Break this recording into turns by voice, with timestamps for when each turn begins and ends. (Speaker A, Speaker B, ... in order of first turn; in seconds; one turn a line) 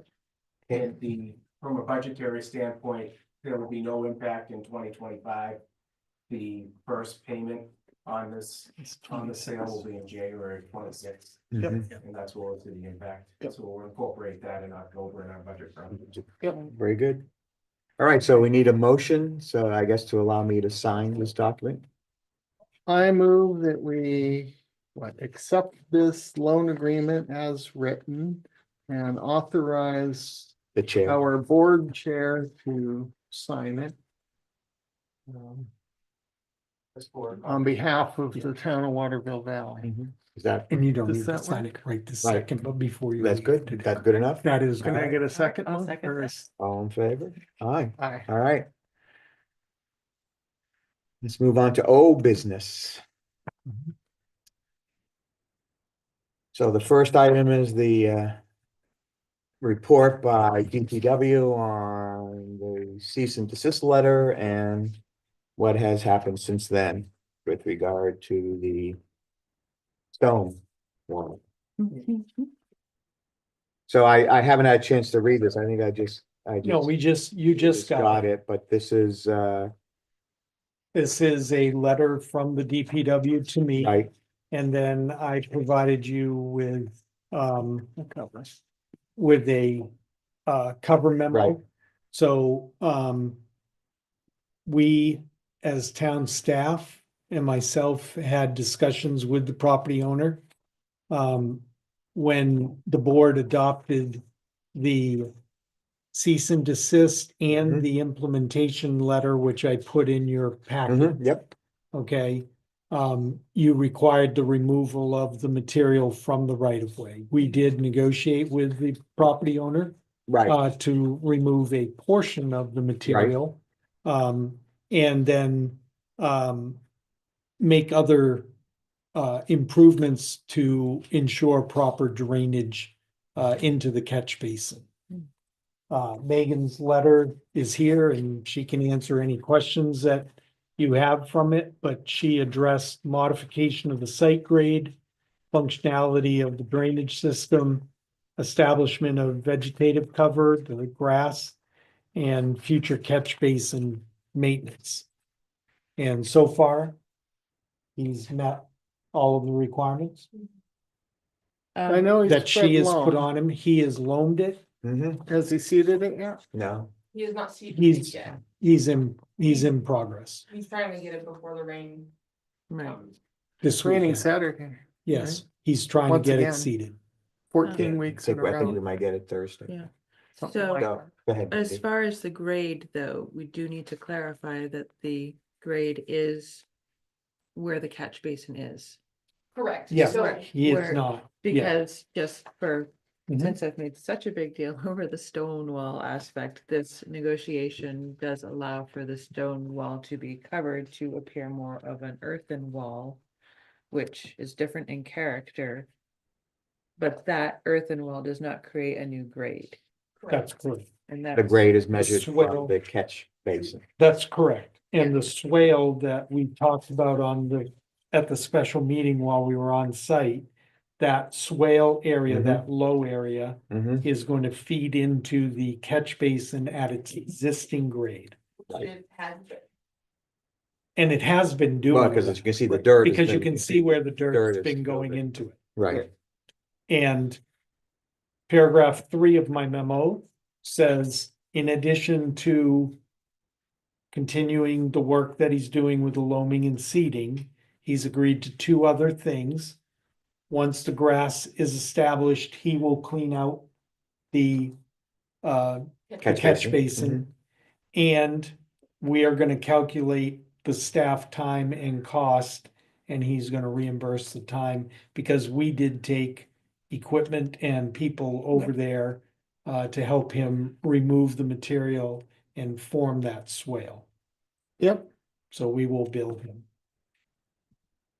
Speaker A: 0.7-5.6
Speaker A: 6.3-16.3
Speaker B: 8.8-9.8
Speaker C: 11.5-11.8
Speaker B: 11.6-11.9
Speaker B: 16.4-16.7
Speaker C: 16.6-17.3
Speaker C: 18.0-21.8
Speaker B: 22.9-30.5
Speaker C: 30.7-31.2
Speaker B: 31.1-34.0
Speaker A: 37.0-37.4
Speaker B: 37.4-39.9
Speaker C: 39.8-40.7
Speaker D: 40.7-45.2
Speaker B: 41.0-41.7
Speaker C: 42.2-42.5
Speaker C: 43.2-44.5
Speaker B: 44.8-46.5
Speaker E: 45.3-46.3
Speaker C: 46.6-48.7
Speaker B: 48.0-48.2
Speaker C: 51.2-53.0
Speaker C: 56.5-58.4
Speaker C: 59.6-65.0
Speaker C: 65.6-69.0
Speaker C: 70.1-71.4
Speaker E: 71.8-72.5
Speaker C: 73.9-76.9
Speaker D: 76.6-78.3
Speaker C: 77.5-79.7
Speaker D: 80.9-87.9
Speaker C: 83.8-84.1
Speaker B: 88.0-88.5
Speaker D: 89.2-89.9
Speaker D: 90.5-93.4
Speaker C: 91.3-91.6
Speaker D: 94.7-100.4
Speaker D: 101.1-104.2
Speaker D: 104.7-105.3
Speaker D: 106.1-111.2
Speaker C: 107.5-107.8
Speaker C: 110.9-111.5
Speaker D: 111.9-119.9
Speaker C: 120.3-120.6
Speaker D: 120.4-126.8
Speaker C: 123.0-123.3
Speaker D: 127.6-128.5
Speaker D: 129.1-134.9
Speaker D: 135.9-144.9
Speaker D: 145.5-151.6
Speaker D: 152.1-155.1
Speaker D: 156.0-157.0
Speaker D: 157.9-160.3
Speaker E: 161.7-162.1
Speaker B: 161.9-163.3
Speaker D: 162.2-164.6
Speaker C: 164.8-165.2
Speaker B: 165.3-166.4
Speaker C: 166.5-166.9
Speaker F: 167.1-168.4
Speaker D: 167.7-170.4
Speaker F: 170.5-172.1
Speaker E: 172.7-173.0
Speaker D: 173.6-174.3
Speaker B: 173.8-175.4
Speaker D: 175.0-177.0
Speaker B: 176.0-176.7
Speaker B: 177.5-178.8
Speaker E: 177.6-177.9
Speaker C: 177.7-179.7
Speaker E: 179.7-180.9
Speaker B: 180.4-181.1
Speaker C: 180.8-181.8
Speaker E: 181.5-186.6
Speaker E: 187.5-189.0
Speaker F: 189.5-190.5
Speaker D: 189.9-191.7
Speaker E: 190.0-203.2
Speaker D: 193.3-193.6
Speaker E: 203.9-205.9
Speaker E: 207.0-209.8
Speaker D: 210.3-210.9
Speaker E: 211.1-211.7
Speaker C: 211.3-213.8
Speaker D: 211.9-212.8
Speaker D: 214.0-220.5
Speaker D: 221.0-228.3
Speaker C: 222.3-222.6
Speaker C: 223.7-224.0
Speaker F: 228.7-229.6
Speaker D: 230.9-235.6
Speaker C: 231.9-235.2
Speaker C: 235.8-236.1
Speaker D: 236.9-237.4
Speaker D: 238.5-242.9
Speaker D: 244.1-249.8
Speaker D: 250.5-253.7
Speaker D: 254.3-254.7
Speaker D: 255.4-257.3
Speaker C: 256.2-257.2
Speaker D: 257.9-274.1
Speaker B: 274.8-275.1
Speaker D: 275.5-276.7